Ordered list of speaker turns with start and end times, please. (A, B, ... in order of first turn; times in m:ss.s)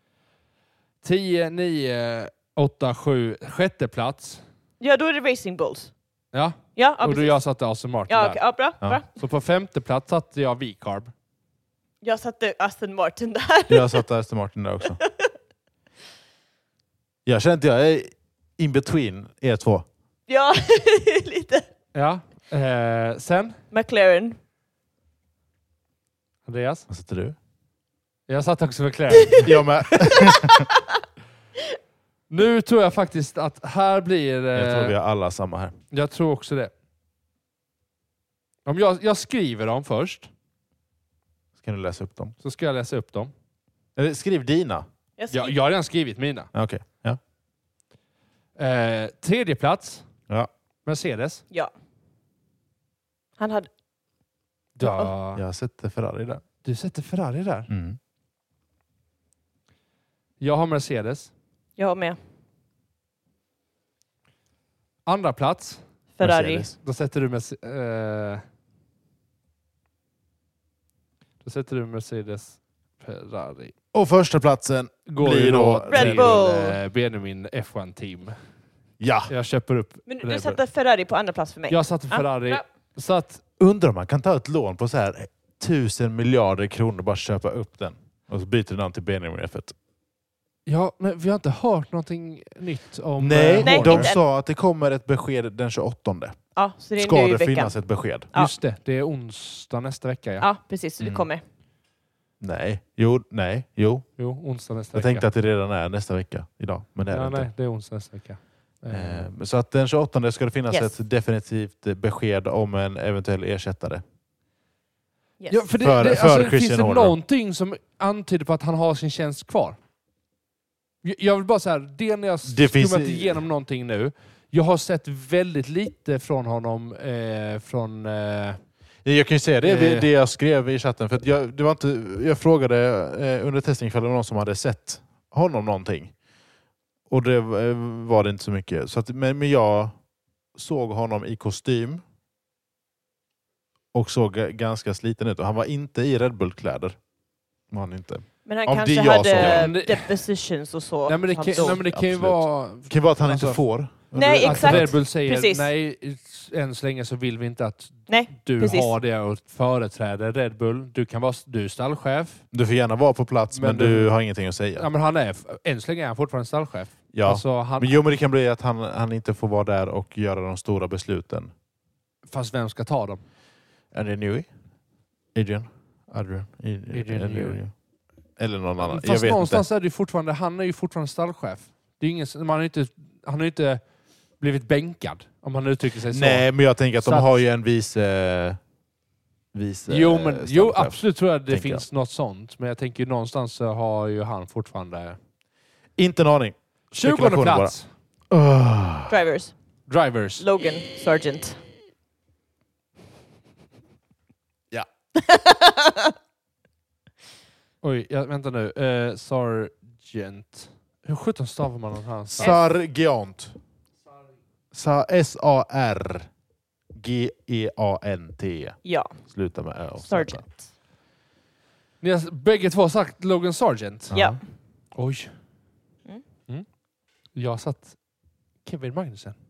0:01.0-0:04.4 A
0:04.8-0:05.9 B
0:06.3-0:08.4 A
0:06.8-0:07.4 B
0:08.1-0:09.1 B
0:09.1-0:11.1 A
0:12.0-0:14.0 B
0:13.7-0:15.0 C
0:15.0-0:15.3 B
0:17.2-0:19.9 C
0:20.3-0:21.7 B
0:21.9-0:23.6 A
0:23.7-0:24.4 B
0:26.5-0:26.9 A
0:26.9-0:27.4 C
0:28.3-0:30.1 A
0:29.4-0:30.7 C
0:30.1-0:30.8 B
0:32.3-0:35.0 A
0:34.5-0:35.8 C
0:35.9-0:36.7 A
0:38.7-0:40.3 A
0:41.6-0:42.3 C
0:42.4-0:43.3 A
0:44.0-0:44.9 C
0:45.2-0:45.6 B
0:45.3-0:46.5 A
0:46.5-0:47.2 C
0:48.6-0:50.0 A
0:50.9-0:51.4 A
0:53.4-0:53.7 B
0:54.8-0:55.4 A
0:54.8-0:55.1 B
0:55.4-0:56.4 C
0:56.6-0:57.7 A
0:57.7-0:58.0 C
1:00.4-1:01.3 A
1:01.8-1:02.2 B
1:05.1-1:05.8 A
1:06.2-1:06.7 B
1:06.2-1:06.8 C
1:06.8-1:08.4 A
1:11.4-1:13.7 A
1:13.9-1:16.4 C
1:15.1-1:18.4 A
1:15.9-1:16.8 B
1:19.0-1:19.3 C
1:19.3-1:20.6 A
1:20.1-1:22.6 B
1:21.7-1:23.4 A
1:23.6-1:29.8 C
1:30.7-1:34.1 A
1:33.2-1:36.4 C
1:33.6-1:34.2 B
1:36.6-1:37.8 B
1:37.0-1:38.3 C
1:38.4-1:40.5 A
1:40.4-1:41.4 B
1:41.0-1:41.3 C
1:42.4-1:44.1 C
1:44.2-1:45.3 A
1:44.9-1:47.5 C
1:47.1-1:49.3 A
1:48.9-1:54.0 C
1:55.5-1:59.8 A
1:55.8-1:57.2 C
2:01.0-2:08.6 A
2:02.5-2:03.4 C
2:09.0-2:16.1 C
2:09.6-2:10.1 A
2:17.1-2:20.0 C
2:20.6-2:22.0 C
2:23.9-2:27.0 C
2:27.7-2:29.7 C
2:28.5-2:31.8 B
2:29.4-2:30.2 A
2:31.1-2:33.6 A
2:31.7-2:35.0 C
2:34.1-2:35.7 B
2:34.3-2:42.4 A
2:38.1-2:38.9 B
2:42.5-2:44.9 C
2:43.5-2:44.1 A
2:44.8-2:48.0 A
2:47.1-2:51.5 C
2:52.3-2:53.2 A
2:53.9-2:54.5 C
2:55.4-2:57.7 C
2:56.9-2:57.6 A
2:58.4-2:59.6 C
2:58.8-3:03.8 A
3:04.4-3:06.5 A
3:06.1-3:08.6 C
3:07.0-3:07.4 A
3:09.5-3:11.9 C
3:09.9-3:15.2 A
3:16.0-3:17.8 C
3:16.9-3:17.9 A
3:18.3-3:19.2 C
3:19.1-3:19.6 B
3:19.9-3:20.4 A
3:20.4-3:21.6 B
3:25.2-3:26.1 B
3:27.8-3:32.6 A
3:32.3-3:33.6 C
3:34.7-3:36.3 C
3:36.9-3:40.4 C
3:38.8-3:39.2 B
3:40.0-3:40.6 B
3:42.0-3:44.1 A
3:44.1-3:44.4 C
3:44.1-3:44.4 B
3:45.0-3:45.3 A
3:47.4-3:48.0 A
3:48.6-3:49.4 A